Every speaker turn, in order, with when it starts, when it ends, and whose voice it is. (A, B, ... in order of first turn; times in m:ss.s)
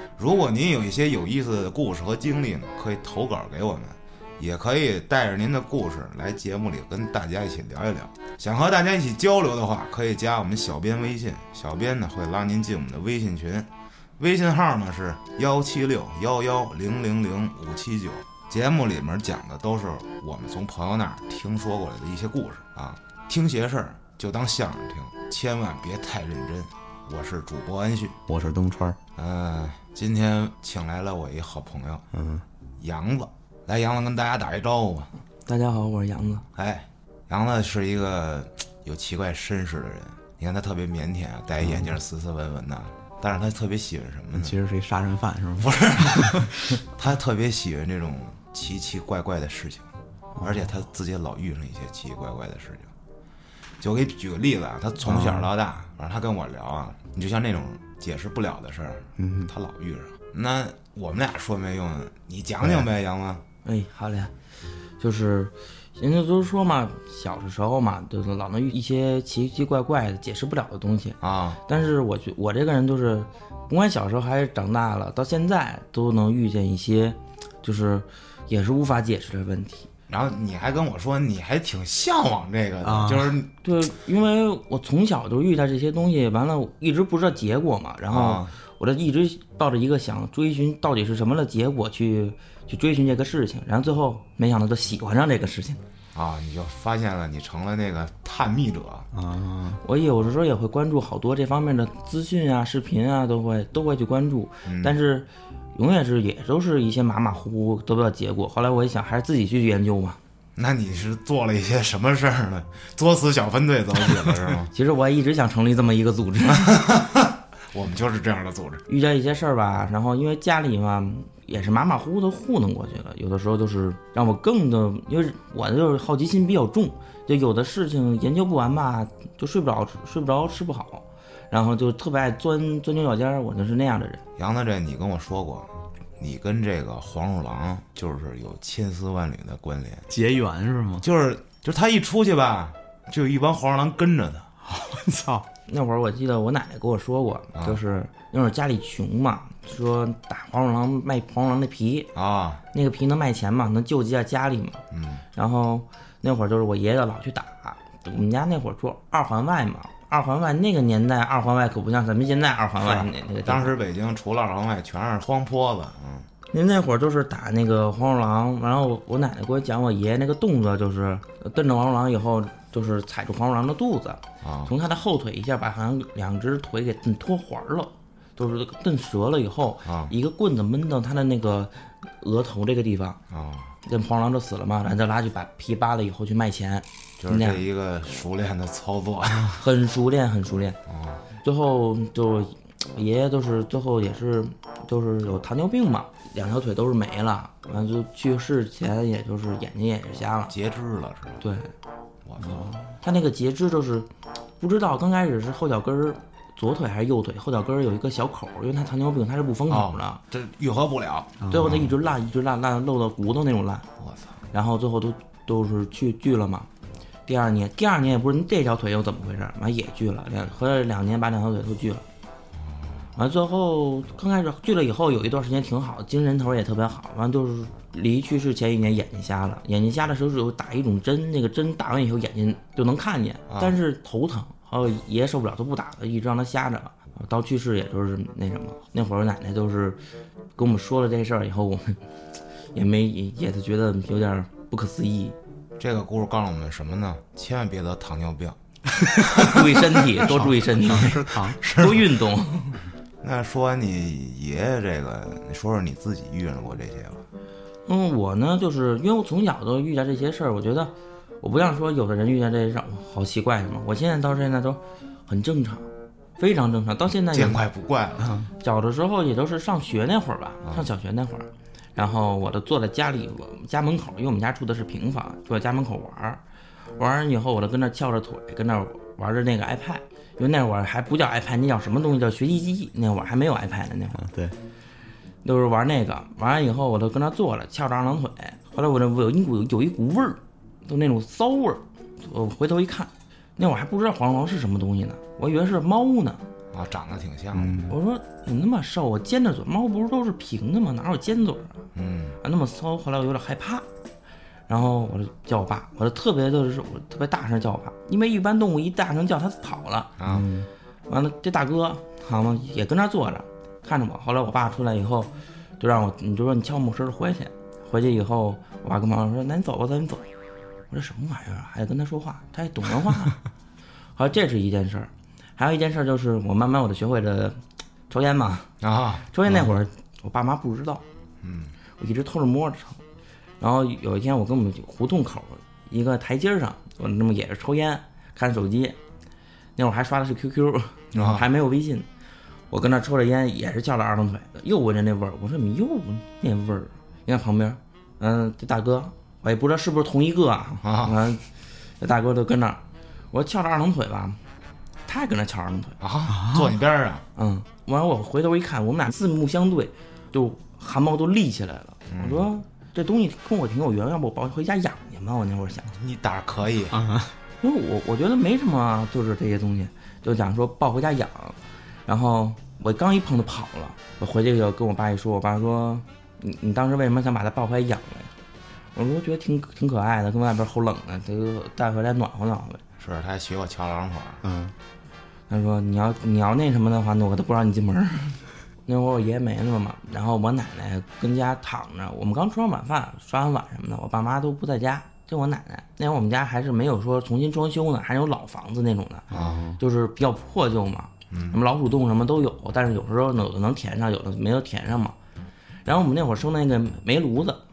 0:00.2-0:28.2 A
0:28.3-0:29.0 B
0:29.2-0:32.0 A
0:32.1-0:32.4 B
0:32.8-0:35.1 A
0:35.4-0:36.4 C
0:36.5-0:44.6 A
0:44.4-0:46.6 B
0:45.6-0:49.9 A
0:50.4-0:52.9 A
0:53.8-1:03.4 A
0:55.0-0:55.5 B
0:59.2-0:59.5 B
1:03.6-1:04.3 C
1:05.0-1:19.9 C
1:11.2-1:11.6 A
1:20.1-1:23.5 A
1:22.8-1:23.4 B
1:23.6-1:35.8 C
1:28.1-1:28.5 A
1:36.1-1:39.1 A
1:39.1-1:39.8 B
1:39.8-1:50.2 C
1:44.6-1:45.0 A
1:50.6-1:54.7 A
1:54.7-1:56.8 C
1:56.5-1:58.8 A
1:58.9-2:14.2 C
2:14.4-2:20.1 A
2:20.1-2:21.0 B
2:21.0-2:24.5 A
2:24.6-2:25.4 B
2:25.7-2:32.1 C
2:27.5-2:27.8 A
2:32.1-2:32.6 A
2:32.7-2:34.8 C
2:34.9-2:35.2 A
2:35.3-2:43.8 C
2:42.8-2:46.3 A
2:46.5-3:03.2 C
2:54.4-2:54.7 A
2:59.8-3:00.1 A
3:03.3-3:03.7 A
3:03.8-3:07.6 C
3:07.2-3:09.6 A
3:09.6-3:10.8 C
3:10.9-3:11.2 A
3:11.4-3:20.5 C
3:20.5-3:21.4 A
3:21.4-3:21.7 C
3:22.2-3:22.8 A
3:22.4-3:22.8 B
3:23.0-3:24.1 C
3:24.6-3:30.2 C
3:29.7-3:31.9 A
3:31.4-3:31.8 B
3:31.5-3:33.9 C
3:34.0-3:34.4 A
3:34.5-3:36.7 C
3:37.2-3:42.0 C
3:42.5-3:43.0 A
3:43.2-4:00.0 C
3:53.5-3:53.8 A
4:00.6-4:02.0 C
4:02.7-4:05.3 C
4:05.8-4:08.6 A
4:09.2-4:09.8 A
4:09.3-4:12.8 C
4:10.2-4:11.6 B
4:11.5-4:12.1 A
4:13.2-4:17.2 A
4:17.8-4:25.8 C
4:26.4-4:27.6 C
4:27.3-4:28.4 A
4:28.2-4:28.5 B
4:28.6-4:36.4 C
4:37.0-4:44.2 C
4:44.2-4:44.5 B
4:45.4-4:56.4 C
4:56.7-4:57.8 A
4:57.5-4:57.9 B
4:57.9-5:01.8 C
5:01.9-5:02.4 A
5:02.4-5:03.8 C
5:04.7-5:10.1 C
5:10.2-5:10.4 A
5:10.2-5:10.7 B
5:11.1-5:20.3 C
5:20.9-5:23.4 C
5:24.2-5:28.7 C
5:28.8-5:29.6 A
5:29.3-5:31.0 C
5:31.4-5:31.7 A
5:32.0-5:33.0 C
5:33.6-5:39.0 C
5:39.8-5:42.0 C
5:41.1-5:41.4 A
5:42.7-5:51.4 C
5:50.8-5:51.2 A
5:52.0-5:52.8 C
5:53.3-5:54.4 C
5:55.0-5:56.0 C
5:56.0-5:57.2 A
5:56.3-5:56.7 B
5:57.4-6:05.9 C
6:02.1-6:02.5 A
6:05.9-6:07.0 A
6:06.9-6:07.3 B
6:07.6-6:18.3 C
6:18.9-6:22.8 C
6:23.0-6:24.4 A
6:24.4-6:24.7 B
6:25.5-6:39.3 C
6:39.3-6:39.6 A
6:39.3-6:39.8 B
6:39.8-6:45.2 C
6:41.3-6:41.6 A
6:45.8-6:47.6 C